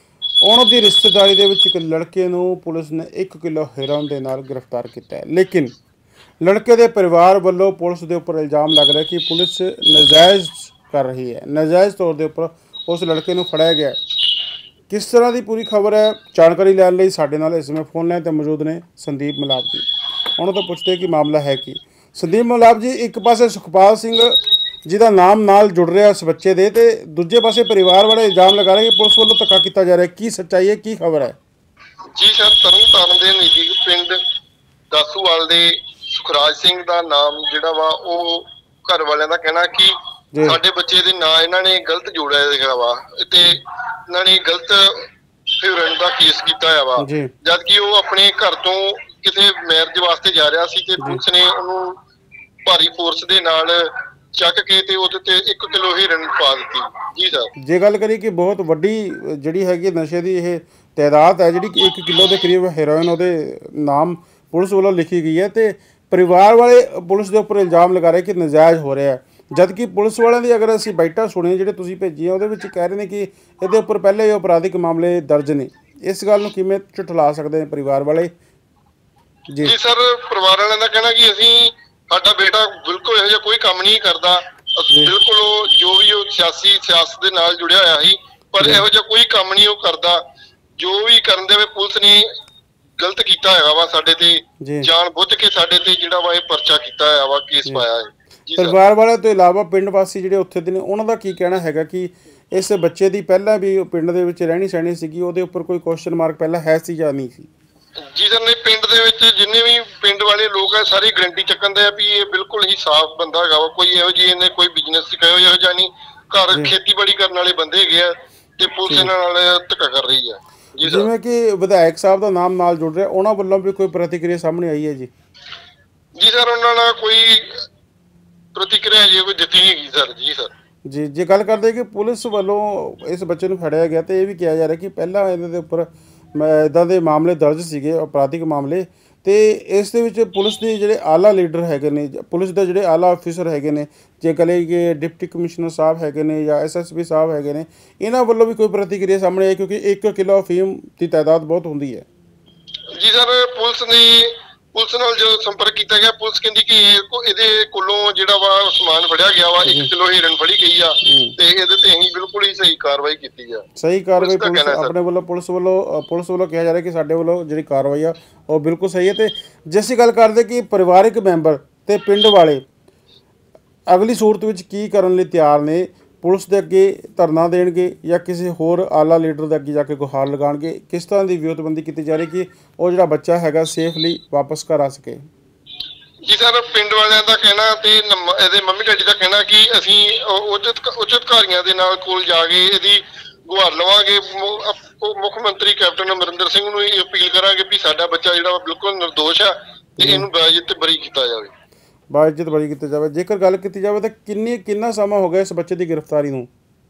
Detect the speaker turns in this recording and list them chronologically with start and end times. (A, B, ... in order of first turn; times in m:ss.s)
0:00.4-0:05.7 A
0:06.4-0:14.0 A
0:14.9-0:19.8 A
0:20.4-0:31.4 A
0:32.1-0:34.2 B
0:34.9-0:45.0 B
0:40.3-0:40.6 A
0:45.6-0:52.0 B
0:47.0-0:47.3 A
0:52.6-0:57.5 B
0:57.6-1:18.3 A
1:19.6-1:30.2 B
1:30.8-1:32.2 B
1:33.0-1:38.7 B
1:34.6-1:34.9 A
1:38.5-1:47.5 A
1:48.1-2:01.1 B
1:58.9-1:59.1 A
2:00.8-2:05.1 A
2:06.2-2:07.6 B
2:08.5-2:10.5 B
2:10.8-2:32.0 A
2:33.0-2:43.6 B
2:39.6-2:39.9 A
2:41.0-2:41.3 A
2:43.8-2:52.6 A
2:44.2-2:44.9 B
2:53.9-3:05.2 A
3:06.2-3:21.5 B
3:20.0-3:20.3 A
3:22.1-3:26.5 A